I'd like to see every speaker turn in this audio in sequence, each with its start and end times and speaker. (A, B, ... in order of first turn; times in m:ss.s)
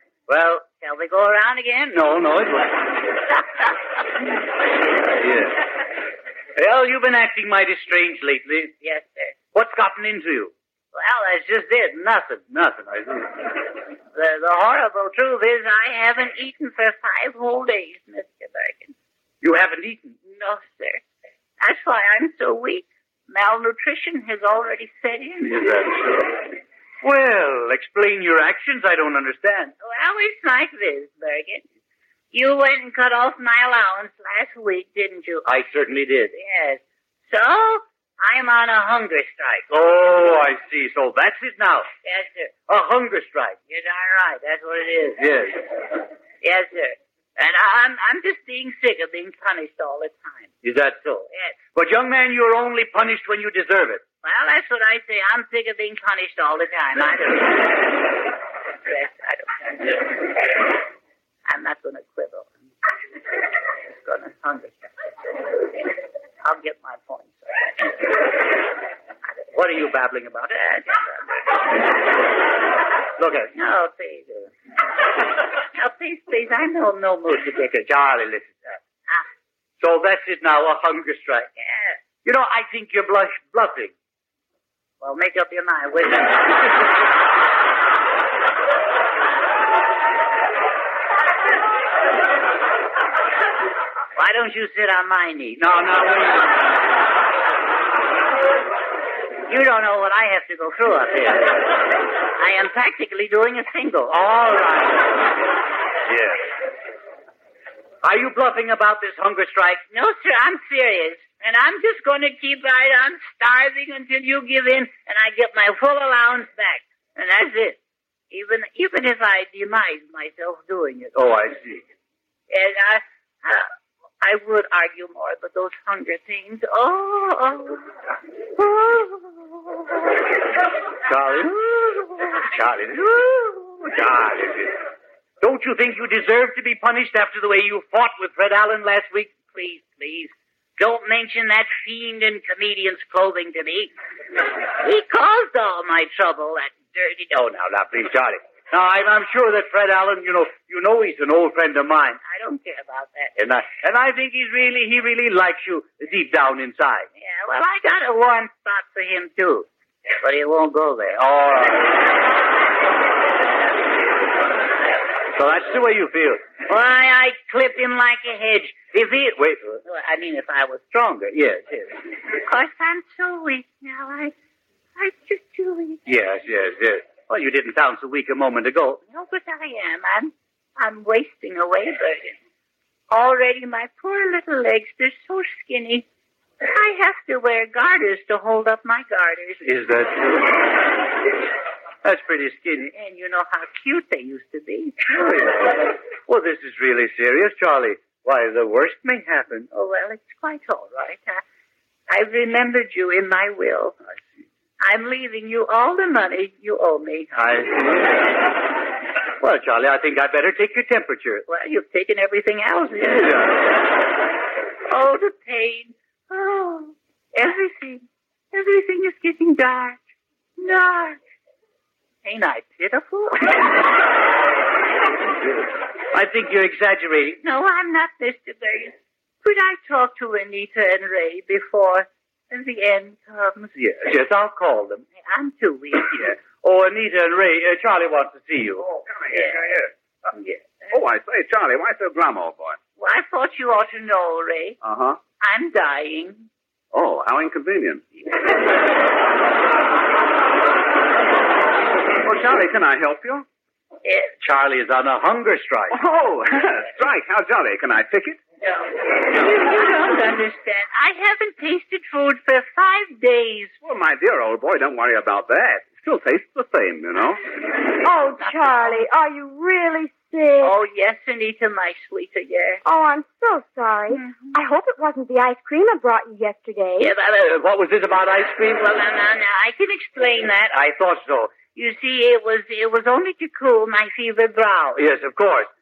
0:00.3-0:00.7 A
0:00.8-0:02.0 B
0:01.9-0:02.9 A
0:05.2-0:05.6 A
0:06.6-0:08.7 A
0:08.8-0:09.4 B
0:09.5-0:10.5 A
0:10.9-0:12.0 B
0:12.3-0:13.3 A
0:14.1-0:18.9 B
0:19.4-0:20.2 A
0:20.3-0:21.0 B
0:21.6-0:25.7 B
0:25.5-0:26.3 A
0:27.0-0:29.7 A
0:29.8-0:31.6 B
0:32.3-0:35.5 B
0:35.5-0:36.3 A
0:36.3-0:39.7 B
0:39.7-0:41.9 A
0:42.0-0:42.5 B
0:42.7-0:43.6 A
0:43.7-0:45.2 B
0:45.2-0:45.6 A
0:46.4-0:50.5 B
0:50.6-0:54.0 A
0:54.2-0:58.2 B
0:58.8-1:00.7 B
1:01.4-1:02.5 B
1:03.9-1:08.1 B
1:09.6-1:10.4 A
1:10.5-1:11.6 B
1:13.2-1:13.5 A
1:13.5-1:14.5 B
1:15.7-1:17.6 B
1:17.6-1:18.8 A
1:19.8-1:21.5 A
1:21.6-1:22.0 B
1:22.2-1:23.9 A
1:25.0-1:26.9 B
1:34.2-1:35.6 B
1:35.6-1:36.4 A
1:39.5-1:41.8 B
1:42.4-1:44.4 B
1:44.1-1:45.0 A
1:46.1-1:46.4 A
1:48.0-1:49.8 A
1:49.9-1:57.8 B
1:58.3-2:01.2 B
2:01.2-2:01.8 A
2:02.5-2:03.7 B
2:04.2-2:07.9 B
2:08.6-2:09.6 B
2:11.1-2:11.5 A
2:11.6-2:12.3 B
2:12.4-2:14.7 A
2:15.4-2:19.4 A
2:19.5-2:23.9 B
2:24.8-2:27.3 B
2:27.4-2:32.2 A
2:32.2-2:33.4 B
2:33.4-2:37.1 A
2:37.2-2:39.7 B
2:40.2-2:41.2 B
2:41.2-2:42.0 A
2:45.3-2:46.4 A
2:46.7-2:48.9 B
2:48.9-2:49.8 A
2:49.8-2:51.2 B
2:51.3-2:51.8 A
2:52.3-2:54.3 B
2:55.0-2:56.0 B
2:56.1-2:59.0 A
2:59.1-3:02.4 B
3:03.1-3:06.0 B
3:06.6-3:09.6 B
3:09.6-3:10.5 A
3:12.0-3:12.9 A
3:12.9-3:15.1 B
3:15.1-3:19.6 A
3:19.7-3:21.4 B
3:22.1-3:24.0 B
3:24.8-3:27.5 B
3:27.4-3:28.2 A
3:29.4-3:31.4 A
3:31.5-3:33.4 B
3:33.2-3:33.4 A
3:34.9-3:40.0 B
3:40.6-3:41.2 B
3:42.2-3:43.9 B
3:46.1-3:47.4 A
3:47.4-3:53.7 B
3:53.8-3:55.0 A
3:55.2-3:56.3 B
3:56.4-3:58.8 A
3:58.8-3:59.9 C
4:00.9-4:02.8 C
4:03.0-4:04.8 B
4:04.8-4:05.2 C
4:05.4-4:06.5 B
4:06.9-4:08.0 C
4:12.2-4:13.4 C
4:14.0-4:14.3 B
4:14.4-4:15.9 A
4:15.9-4:18.4 C
4:19.2-4:23.8 B
4:23.8-4:27.4 C
4:28.0-4:30.7 D
4:28.4-4:29.0 B
4:30.6-4:32.8 B
4:32.8-4:37.1 D
4:34.1-4:34.6 B
4:37.0-4:37.2 B
4:37.3-4:38.8 A
4:38.8-4:40.8 B
4:41.0-4:41.5 A
4:41.6-4:45.0 B
4:45.0-4:45.7 A